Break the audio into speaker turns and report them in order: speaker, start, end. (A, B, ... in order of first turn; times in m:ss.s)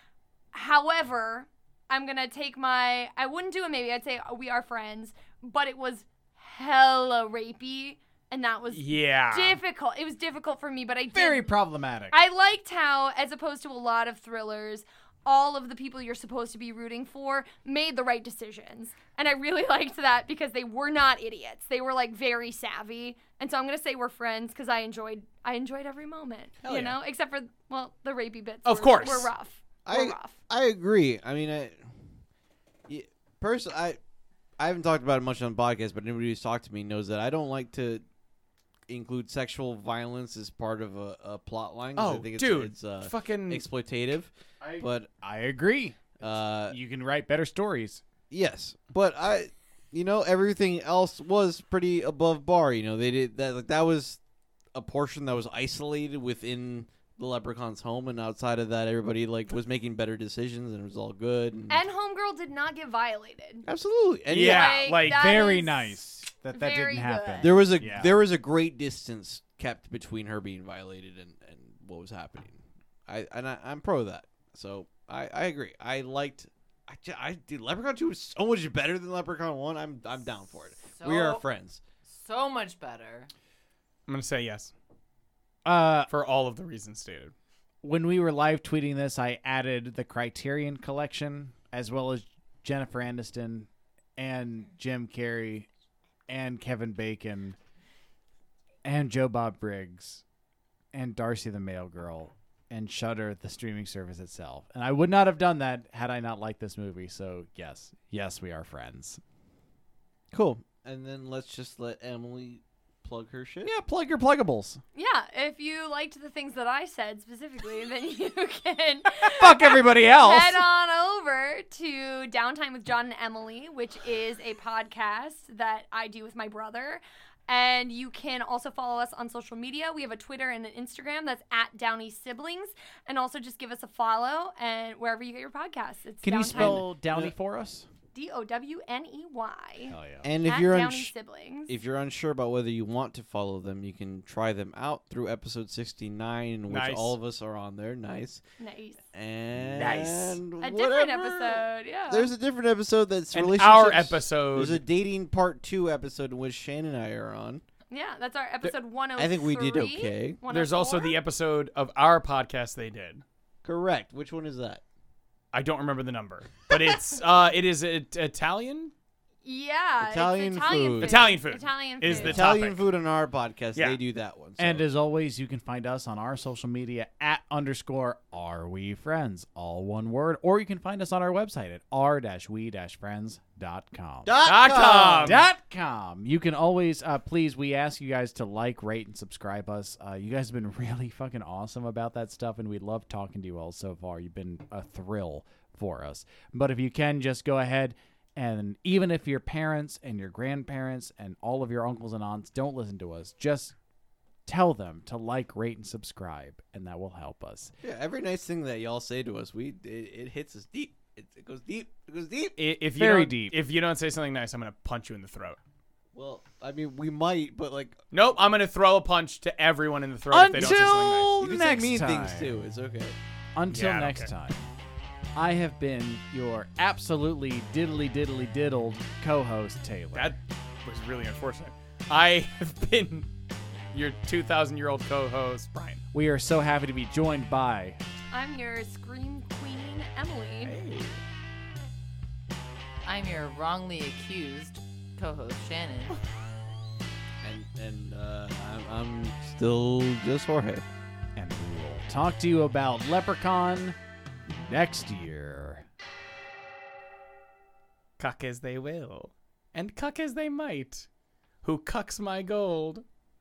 0:00.5-0:11.6 A
0:08.7-0:09.6 B
0:11.1-0:12.2 C
0:12.1-0:30.4 A
0:26.7-0:27.0 B
0:28.7-0:29.3 B
0:29.9-0:31.8 D
0:32.9-0:34.0 D
0:34.6-0:38.0 D
0:38.9-0:45.1 D
0:42.0-0:43.6 B
0:44.6-0:48.0 C
0:46.2-0:46.8 D
0:48.3-0:54.2 D
0:54.8-1:01.8 D
1:01.7-1:03.6 A
1:03.7-1:04.9 D
1:04.3-1:05.2 B
1:04.4-1:06.0 A
1:05.0-1:08.1 C
1:06.5-1:07.6 A
1:07.4-1:21.8 D
1:20.9-1:21.4 E
1:22.1-1:23.3 E
1:24.1-1:24.7 B
1:25.6-1:26.1 C
1:26.1-1:27.3 B
1:27.8-1:35.7 C
1:36.3-1:37.6 C
1:38.8-1:40.2 C
1:40.9-1:49.2 C
1:50.3-1:53.7 D
1:53.6-1:54.8 C
1:55.0-2:16.9 A
1:59.2-2:00.7 C
2:16.2-2:17.9 C
2:16.5-2:17.3 D
2:18.1-2:21.7 A
2:19.9-2:20.3 C
2:20.2-2:21.1 D
2:21.7-2:28.4 D
2:26.7-2:27.2 B
2:28.6-2:29.0 A
2:29.1-2:37.6 D
2:29.8-2:30.4 B
2:30.6-2:32.3 A
2:33.3-2:34.8 B
2:37.9-2:41.2 A
2:38.6-2:40.4 D
2:40.5-2:43.2 B
2:43.6-2:44.8 D
2:45.5-2:48.9 B
2:49.4-2:52.5 A
2:50.0-2:51.3 D
2:51.0-2:52.8 B
2:52.1-2:54.8 D
2:54.6-3:04.3 C
3:04.2-3:05.4 D
3:04.4-3:05.4 B
3:05.2-3:23.8 C
3:24.5-3:27.7 C
3:27.8-3:32.6 D
3:32.6-3:35.6 B
3:33.0-3:33.6 C
3:36.1-3:38.0 D
3:38.1-3:41.3 B
3:40.3-3:42.6 C
3:40.6-3:40.9 D
3:41.4-3:43.2 D
3:43.6-3:44.6 C
3:43.7-3:44.3 B
3:45.4-3:50.3 C
3:50.1-3:53.3 B
3:53.9-3:56.0 B
3:56.1-3:58.0 C
3:58.3-4:00.8 A
4:00.6-4:01.2 B
4:03.1-4:06.2 E
4:07.4-4:10.8 D
4:11.4-4:15.9 C
4:18.2-4:21.1 B
4:21.6-4:23.0 B